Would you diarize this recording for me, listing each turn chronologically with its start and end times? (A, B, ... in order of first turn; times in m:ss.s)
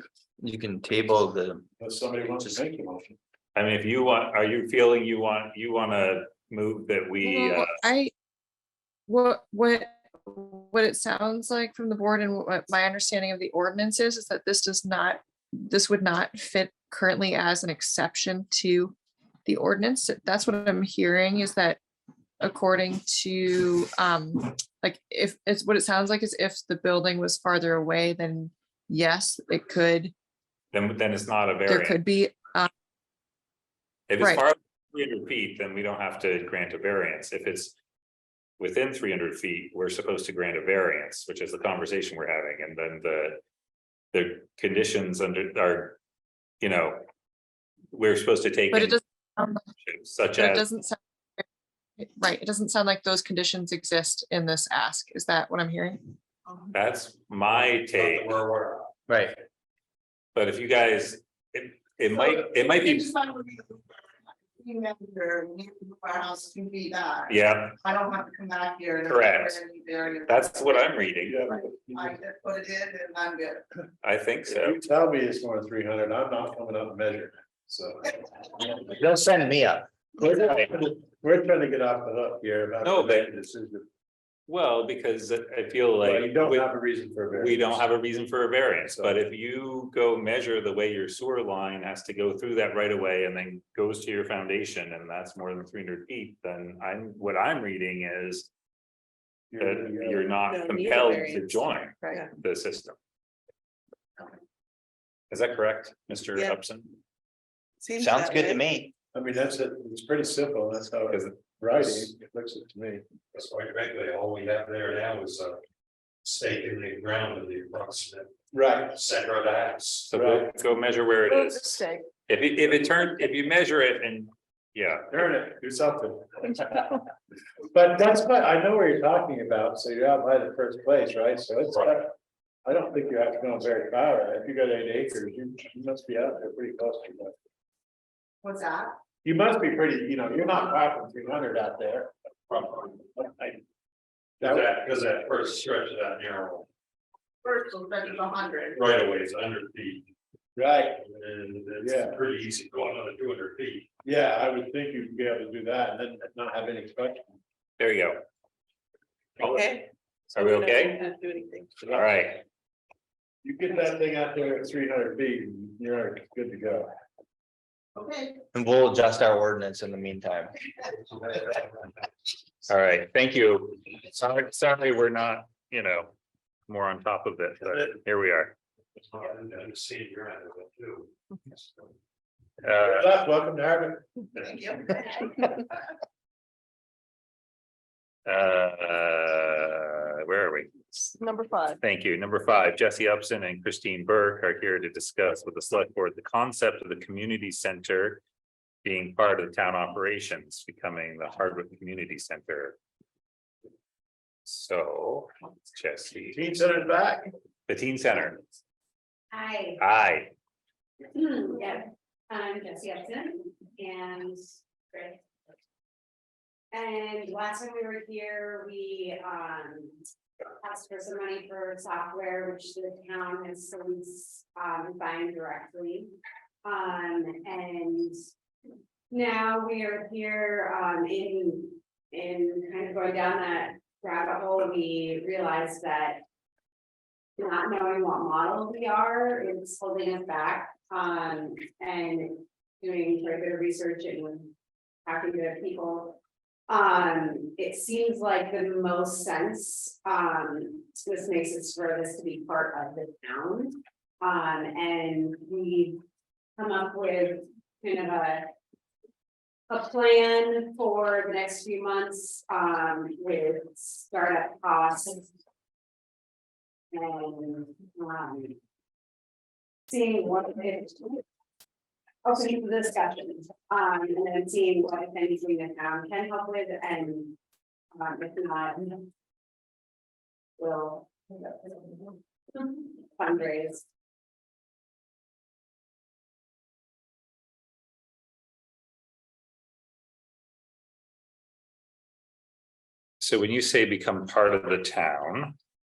0:00.4-0:01.6 A
0:01.8-0:03.2 B
0:03.5-0:07.6 C
0:07.2-0:08.1 D
0:09.1-0:18.9 D
0:19.4-0:21.8 D
0:22.4-0:30.1 D
0:30.7-0:32.0 C
0:31.7-0:32.7 D
0:34.1-0:37.8 C
0:34.2-0:34.4 D
0:38.6-0:43.4 C
0:44.1-0:46.0 C
0:46.6-0:47.0 C
0:47.9-0:49.0 C
0:48.7-0:49.6 D
0:49.8-0:50.6 C
0:50.3-0:51.4 D
0:52.0-0:56.0 D
0:56.7-0:58.3 C
0:57.7-0:58.9 E
0:59.1-0:59.4 A
1:00.3-1:03.1 C
1:02.1-1:13.6 F
1:07.3-1:07.8 C
1:09.0-1:09.6 C
1:10.2-1:11.4 C
1:11.2-1:12.1 B
1:14.0-1:14.8 C
1:14.5-1:18.9 B
1:18.9-1:19.9 A
1:20.2-1:23.8 B
1:22.8-1:23.3 C
1:24.5-1:26.7 C
1:26.0-1:27.8 B
1:27.3-1:38.5 C
1:28.9-1:29.2 B
1:39.5-1:40.3 B
1:39.6-1:43.0 C
1:40.5-1:42.3 G
1:45.3-1:47.0 C
1:47.8-1:48.6 G
1:48.0-1:48.9 A
1:49.1-1:53.0 B
1:53.3-1:55.6 E
1:56.2-1:58.3 E
1:58.5-1:59.0 B
1:58.9-2:00.1 E
2:00.1-2:05.1 C
2:00.1-2:00.5 B
2:01.3-2:02.0 D
2:05.1-2:07.0 B
2:07.7-2:12.1 B
2:12.6-2:17.3 B
2:18.4-2:18.9 F
2:19.2-2:22.1 B
2:22.5-2:23.0 E
2:23.2-2:23.6 B
2:24.4-2:26.7 E
2:24.4-2:24.7 B
2:27.4-2:28.8 F
2:28.7-2:30.1 E
2:30.6-2:31.0 B
2:31.0-2:33.9 E
2:31.8-2:32.2 B
2:34.0-2:37.2 B
2:37.8-2:38.2 C
2:39.4-2:41.8 G
2:39.4-2:39.8 C
2:40.3-2:41.0 C
2:41.8-2:42.4 C
2:43.4-2:46.9 B
2:48.0-2:48.4 F
2:48.5-2:50.6 A
2:52.7-2:56.1 C
2:56.7-2:58.5 C
2:59.1-3:01.6 E
3:02.6-3:03.0 C
3:02.6-3:04.1 B
3:08.2-3:10.7 C
3:11.2-3:11.8 G
3:11.8-3:18.2 C
3:18.8-3:22.8 C
3:24.4-3:26.8 C
3:26.3-3:27.3 B
3:27.7-3:28.5 C
3:29.3-3:29.8 H
3:29.8-3:30.3 C
3:31.1-3:34.4 H
3:34.9-3:35.2 H
3:36.7-3:40.0 H
3:40.6-3:46.1 H
3:46.6-3:48.1 H
3:49.1-3:56.2 H
3:57.4-4:04.5 H
4:05.0-4:16.0 H
4:16.6-4:18.4 H
4:19.7-4:25.3 H
4:26.9-4:28.6 H
4:29.9-4:31.2 H
4:32.2-4:37.4 H
4:37.9-4:39.0 H
4:40.6-4:43.8 H
4:53.2-4:55.6 C